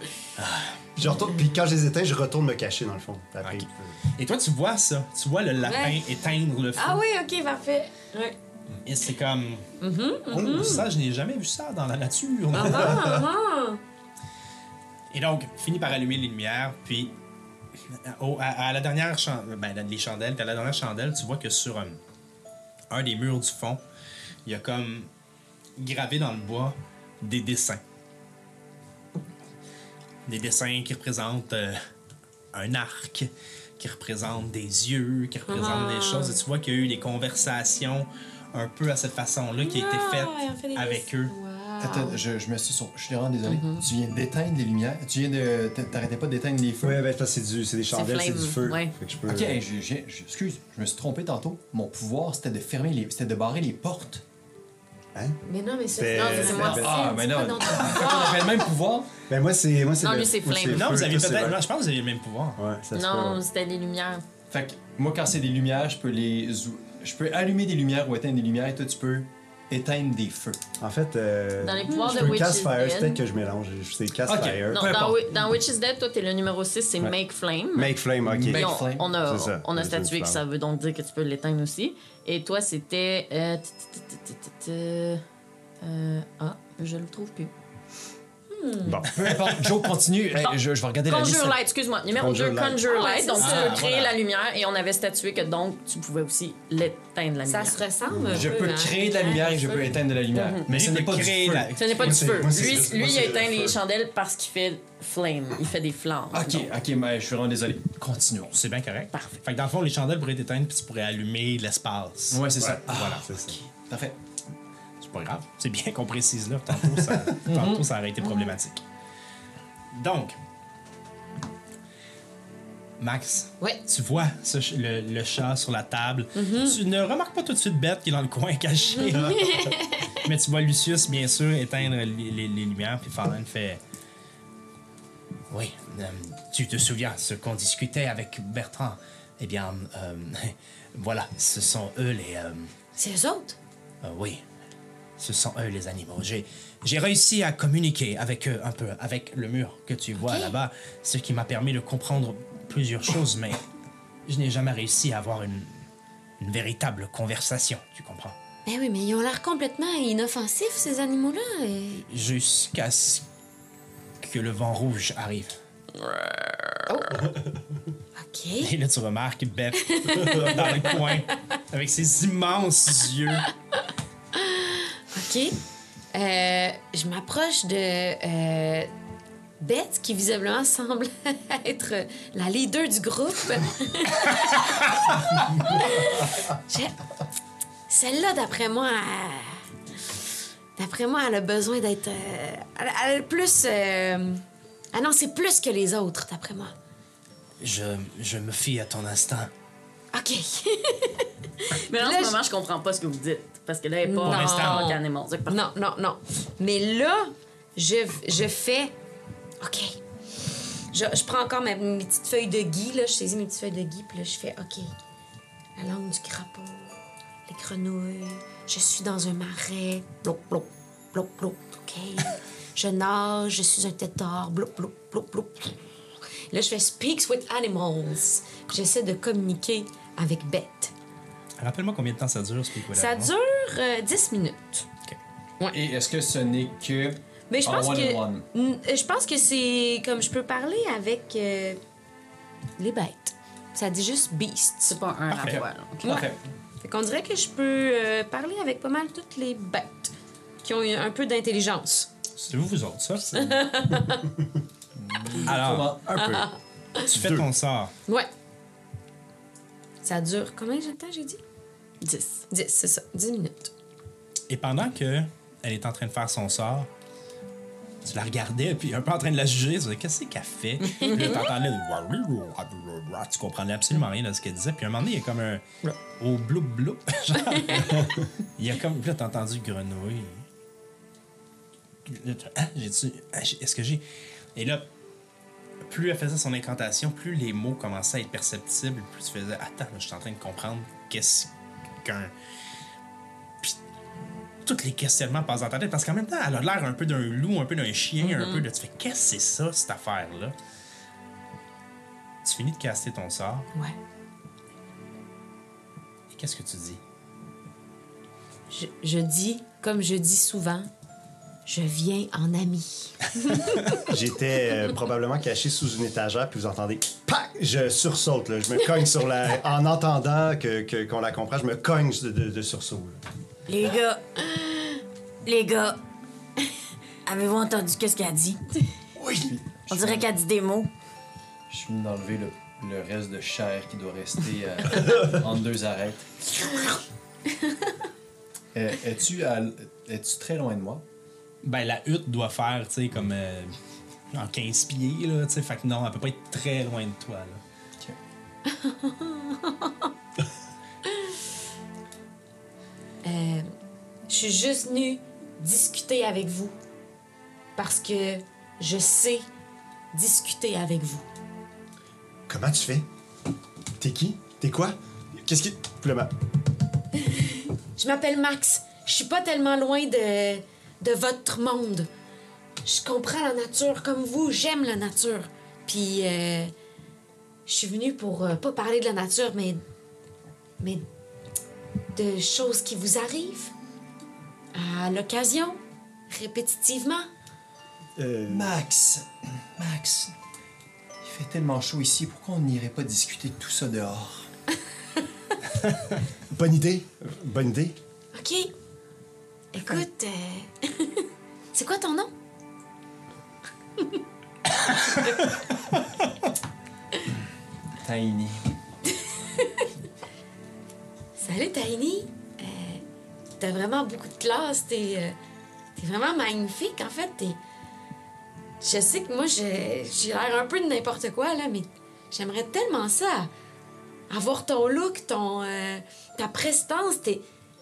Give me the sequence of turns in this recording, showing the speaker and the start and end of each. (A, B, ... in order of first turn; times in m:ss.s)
0:00.4-0:00.9 A
0:01.0-0:04.0 B
0:03.4-0:07.0 A
0:05.6-0:06.0 C
0:06.8-0:08.4 C
0:08.8-0:09.7 A
0:09.8-0:10.8 C
0:10.3-0:13.2 A
0:12.5-0:13.8 C
0:15.1-0:17.1 A
0:17.9-0:22.0 A
0:22.9-0:23.8 A
0:24.4-0:25.1 A
0:25.8-0:27.8 A
0:30.2-0:31.8 A
0:32.5-0:41.3 A
0:35.5-0:36.4 C
0:39.6-0:42.2 C
0:41.8-0:47.0 D
0:43.4-0:43.8 E
0:46.8-0:49.6 B
0:47.9-0:48.9 E
0:49.3-0:54.2 D
0:55.4-0:58.6 C
0:56.0-0:57.0 B
0:56.3-0:57.0 E
0:56.5-0:59.1 D
0:59.3-1:01.6 B
1:00.0-1:01.0 E
1:00.6-1:02.6 A
1:02.6-1:03.4 B
1:02.9-1:04.2 E
1:04.5-1:10.6 D
1:10.8-1:14.9 B
1:11.6-1:13.2 E
1:11.9-1:12.3 C
1:14.2-1:15.2 D
1:14.7-1:25.2 E
1:17.7-1:20.4 B
1:18.2-1:19.1 D
1:25.8-1:27.5 E
1:28.5-1:29.0 C
1:28.8-1:29.4 B
1:29.2-1:31.6 D
1:30.3-1:37.8 E
1:32.1-1:32.8 B
1:32.8-1:33.7 C
1:33.4-1:34.1 A
1:37.4-1:39.9 C
1:38.1-1:38.5 B
1:38.3-1:41.7 D
1:40.3-1:40.6 E
1:40.7-1:43.1 A
1:41.8-1:46.7 E
1:42.0-1:43.8 B
1:46.3-1:48.5 D
1:48.5-1:53.3 A
1:52.3-1:54.2 D
1:52.6-1:53.6 B
1:55.0-1:58.8 A
1:57.4-1:57.9 D
1:58.2-1:58.5 C
1:59.9-2:00.4 A
2:03.0-2:13.8 A
2:06.3-2:06.8 C
2:09.0-2:10.2 C
2:15.5-2:22.7 A
2:23.0-2:23.6 C
2:24.0-2:24.4 A
2:25.2-2:33.6 A
2:30.2-2:30.5 C
2:34.2-2:35.8 A
2:36.4-2:38.4 A
2:38.6-2:42.0 C
2:42.1-2:43.2 A
2:44.2-2:45.6 A
2:46.1-2:46.7 E
2:46.9-2:47.3 C
2:48.2-2:48.7 C
2:48.6-2:53.5 A
2:49.8-2:51.2 C
2:54.3-2:55.6 C
2:56.1-2:58.9 C
2:59.6-3:07.0 C
3:07.9-3:09.7 C
3:10.8-3:16.7 C
3:17.6-3:19.5 A
3:20.1-3:22.4 C
3:21.7-3:25.6 E
3:24.0-3:28.9 C
3:24.2-3:24.8 A
3:29.6-3:30.0 C
3:30.9-3:34.9 C
3:35.8-3:45.7 C
3:46.5-3:50.9 C
3:51.6-3:53.3 A
3:52.9-3:54.9 C
3:55.7-3:58.4 D
3:57.5-4:01.8 C
4:02.8-4:05.0 C
4:04.8-4:06.2 E
4:05.3-4:05.6 A
4:05.4-4:06.4 D
4:06.8-4:12.1 C
4:12.4-4:13.6 A
4:13.3-4:14.3 C
4:15.0-4:16.1 D
4:15.4-4:16.0 A
4:16.0-4:16.5 B
4:16.2-4:17.0 C
4:17.1-4:17.9 A
4:17.1-4:17.5 B
4:20.0-4:21.4 C
4:22.0-4:22.4 E
4:22.5-4:23.7 C
4:24.5-4:26.9 A
4:28.0-4:35.6 A
4:31.0-4:31.4 C
4:36.1-4:40.4 A
4:42.0-4:44.0 A
4:44.5-4:44.9 A
4:45.8-4:52.3 A
4:54.6-5:00.5 A
4:58.2-4:58.6 C
5:02.4-5:03.7 A
5:06.3-5:07.0 A
5:08.7-5:10.9 C
5:11.6-5:14.1 C
5:14.0-5:23.2 B
5:23.7-5:24.2 E
5:25.4-5:26.0 E
5:27.2-5:28.8 E
5:29.2-5:30.2 B
5:29.9-5:30.9 E
5:31.7-5:36.8 D
5:38.7-5:41.0 D
5:41.6-5:43.7 A
5:44.3-5:47.6 A
5:48.6-5:50.1 C
5:53.2-5:53.7 C
5:54.3-5:56.8 C
5:57.8-5:59.5 C
6:00.1-6:01.2 C
6:02.5-6:03.0 B
6:04.0-6:06.3 B
6:08.0-6:12.1 C
6:12.8-6:16.7 C
6:17.6-6:19.8 C
6:22.1-6:23.7 C
6:24.7-6:27.3 C
6:28.2-6:28.7 B
6:28.5-6:30.3 D
6:31.2-6:34.5 D
6:36.5-6:38.0 B
6:38.3-6:38.7 C
6:39.7-6:42.3 C
6:45.0-6:45.4 A
6:45.2-6:45.5 C
6:48.0-6:48.7 D
6:49.2-6:49.9 C
6:51.4-6:53.0 C
6:53.6-6:55.4 C
6:56.0-6:57.6 C
6:58.8-7:03.5 C
7:04.3-7:07.4 C